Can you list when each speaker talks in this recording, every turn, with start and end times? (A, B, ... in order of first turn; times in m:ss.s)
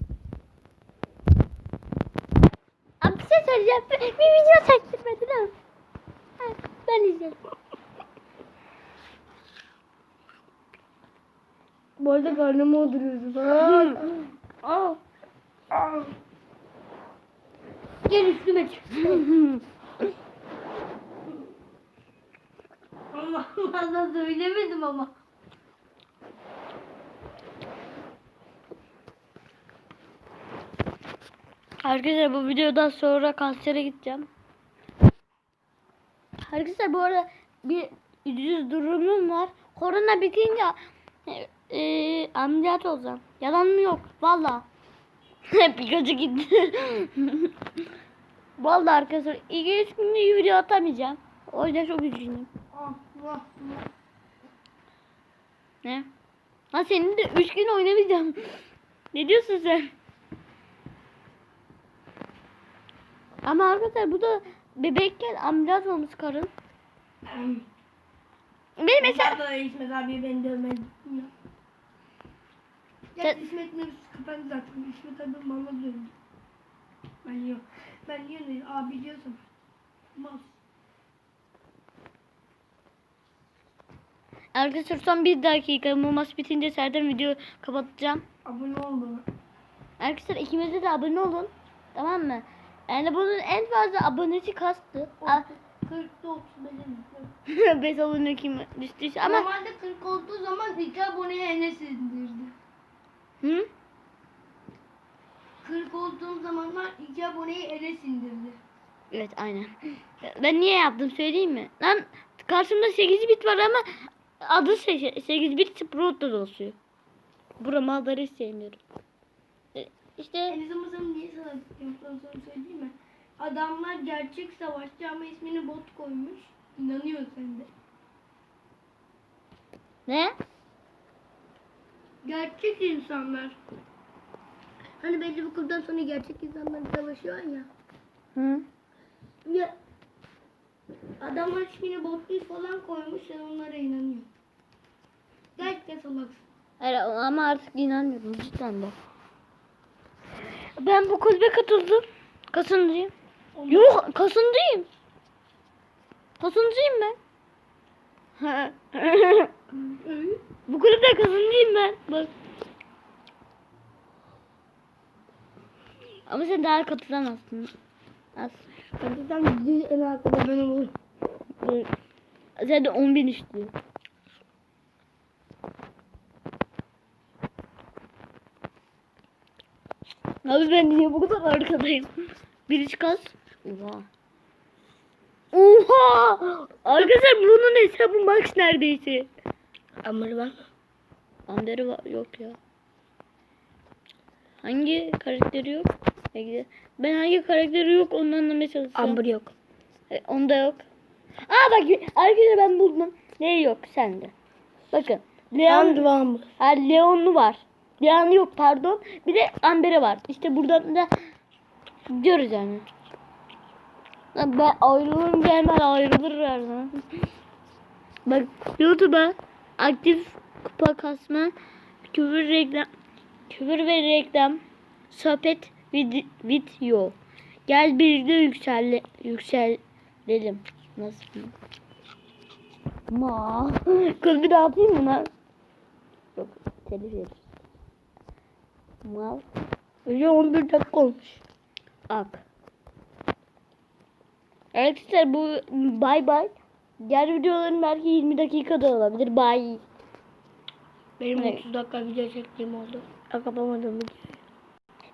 0:03.0-0:05.5 A
0:06.4-0:07.4 A
0:12.0-0:14.1 B
0:13.6-0:14.1 A
0:14.6-0:15.0 A
0:15.7-0:16.0 B
0:18.1-0:19.3 B
0:19.2-0:19.6 A
0:23.1-0:25.1 B
0:31.8-0:34.3 A
0:36.4-0:40.8 A
0:41.3-0:44.7 A
0:45.5-0:47.5 A
0:48.6-0:52.5 A
0:52.7-0:53.9 B
0:56.7-0:58.6 A
0:59.1-0:59.9 A
1:03.4-1:06.5 A
1:07.3-1:07.7 B
1:08.8-1:09.4 A
1:09.0-1:11.3 B
1:13.2-1:16.1 B
1:17.2-1:19.4 B
1:20.1-1:20.6 B
1:24.5-1:28.2 A
1:28.4-1:29.3 B
1:30.0-1:35.5 A
1:35.2-1:37.3 B
1:37.5-1:39.5 A
1:39.2-1:42.5 B
1:43.4-1:43.7 A
1:45.6-1:48.6 B
1:49.1-1:56.8 A
1:57.6-1:58.8 A
1:59.8-2:00.6 A
2:00.5-2:07.7 B
2:10.1-2:10.4 A
2:12.2-2:13.6 B
2:15.0-2:17.7 B
2:18.4-2:18.7 A
2:19.4-2:19.8 B
2:21.2-2:24.3 B
2:25.6-2:26.4 B
2:26.8-2:29.0 A
2:30.8-2:33.1 A
2:33.6-2:34.0 B
2:33.7-2:34.9 A
2:36.4-2:37.2 A
2:38.4-2:39.5 A
2:40.0-2:40.4 B
2:40.7-2:42.3 A
2:46.3-2:47.7 A
2:48.4-2:48.7 A
2:49.0-2:50.9 B
2:51.6-2:51.9 A
2:52.6-2:53.7 A
3:00.4-3:02.1 A
3:02.7-3:04.1 A
3:05.5-3:09.3 A
3:10.0-3:10.7 B
3:11.5-3:12.6 A
3:14.6-3:19.2 A
3:19.0-3:19.5 B
3:20.1-3:20.8 A
3:21.5-3:24.3 A
3:24.9-3:26.0 A
3:25.6-3:26.5 B
3:26.6-3:31.1 A
3:32.1-3:32.9 A
3:34.4-3:37.0 A
3:38.3-3:41.5 A
3:42.1-3:42.9 A
3:43.5-3:51.5 A
3:53.1-3:55.3 A
3:56.4-3:57.4 A
3:59.0-3:59.4 A
4:00.1-4:01.4 B
4:02.1-4:02.4 A
4:04.7-4:09.8 A
4:11.2-4:13.2 B
4:11.4-4:11.6 A
4:13.3-4:14.3 A